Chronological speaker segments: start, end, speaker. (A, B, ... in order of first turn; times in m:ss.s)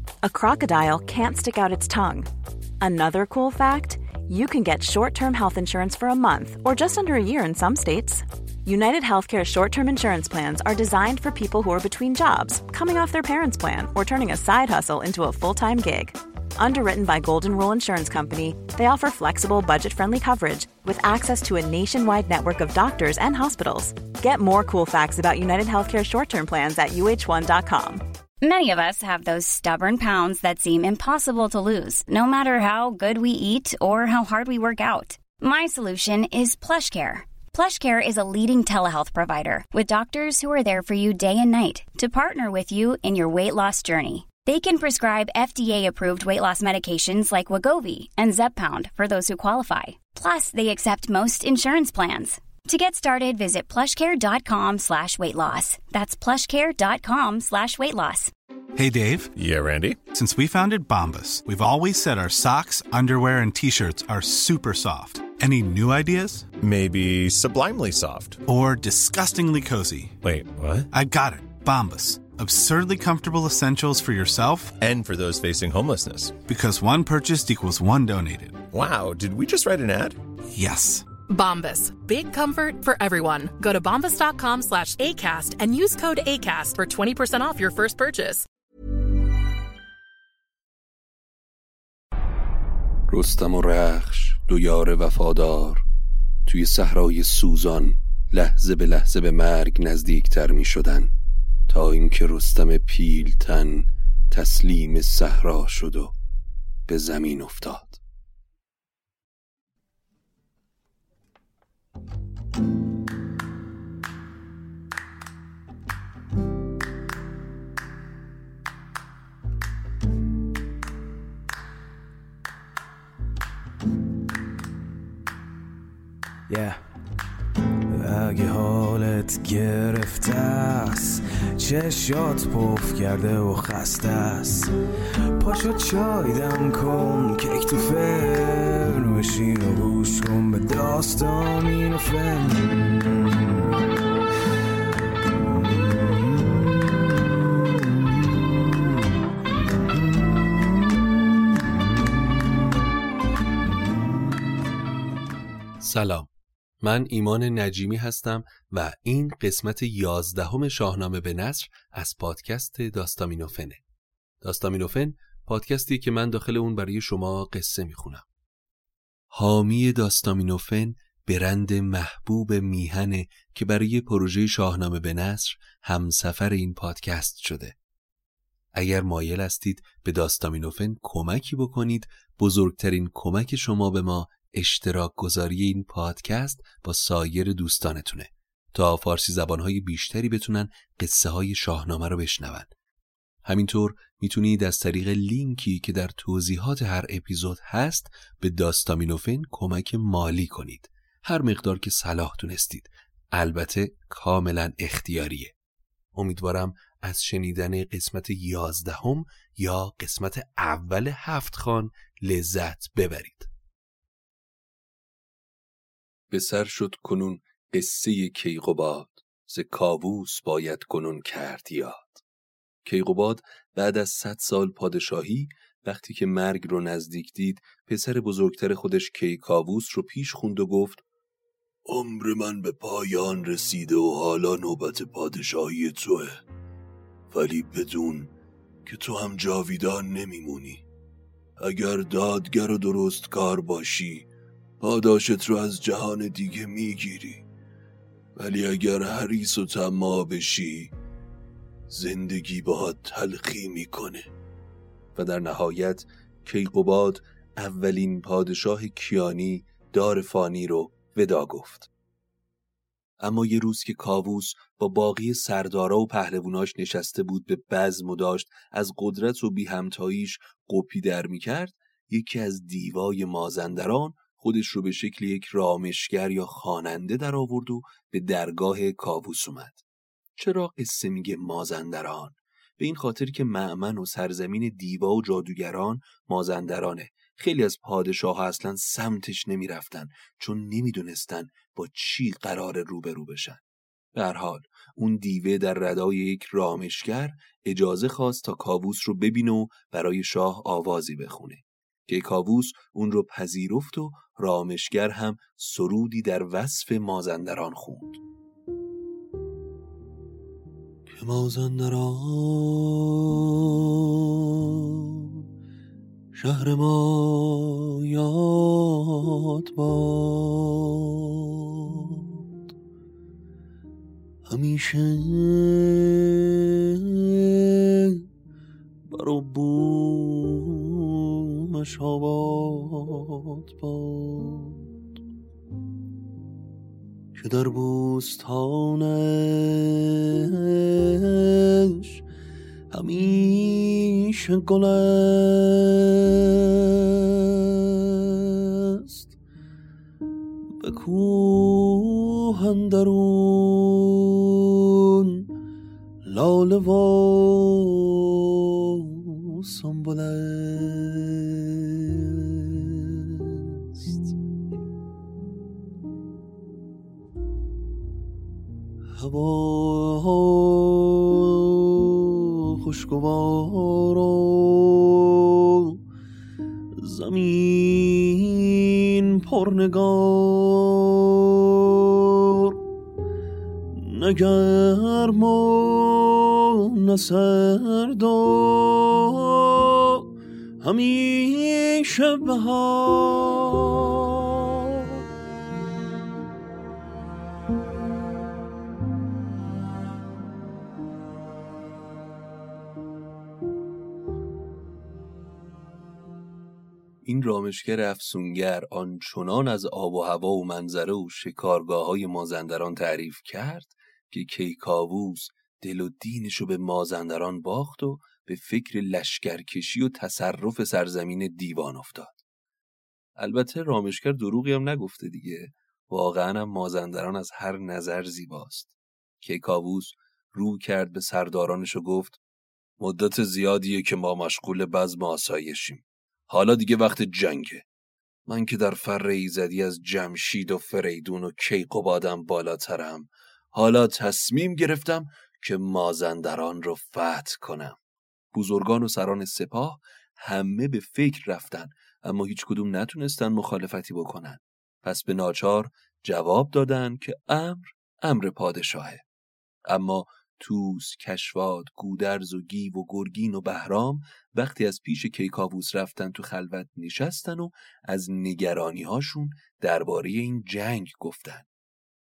0:00.2-0:02.3 A
0:02.8-0:28.0 A
0:28.4-0:58.3 B
0:58.8-0:59.3 C
0:59.4-1:00.0 D
1:00.1-1:06.5 C
1:06.6-1:08.4 D
1:08.5-1:10.2 C
1:10.2-1:10.9 D
1:10.9-1:14.8 C
1:14.8-1:16.4 D
1:16.4-1:18.6 C
1:18.7-1:20.2 D
1:20.5-1:21.1 C
1:21.3-1:28.5 E
1:33.1-1:35.8 F
1:36.4-1:41.1 F
1:41.7-1:46.2 F
1:46.9-1:48.0 F
2:06.5-2:06.8 G
2:07.9-2:14.7 G
2:15.4-2:23.8 G
2:25.3-2:26.9 G
2:35.8-2:36.3 F
2:36.8-2:43.8 F
2:44.4-2:48.3 F
2:49.3-2:57.8 F
2:58.7-3:12.7 F
3:13.4-3:25.6 F
3:26.1-3:33.5 F
3:36.3-3:42.2 F
3:42.8-3:51.0 F
3:51.8-3:56.4 F
3:57.3-3:58.3 F
3:58.8-4:00.9 F
4:01.6-4:04.3 F
4:04.8-4:07.4 F
4:08.4-4:10.9 F
4:11.9-4:14.3 F
4:15.2-4:21.9 F
4:23.2-4:39.8 F
4:40.4-4:53.6 F
4:54.1-5:08.2 F
5:11.1-5:15.4 F
5:16.3-5:22.6 F
5:24.5-5:28.2 F
5:29.1-5:34.9 F
5:37.4-5:42.2 F
5:42.9-5:49.4 F
5:50.8-5:55.5 F
5:56.2-6:04.3 F
6:09.1-6:16.0 F
6:17.0-6:22.8 F
6:23.9-6:30.3 F
6:30.8-6:35.2 F
6:47.2-7:02.4 F
7:03.4-7:12.4 F
7:13.0-7:17.9 F
7:18.5-7:28.0 F
7:28.5-7:39.2 F
7:39.9-7:51.7 F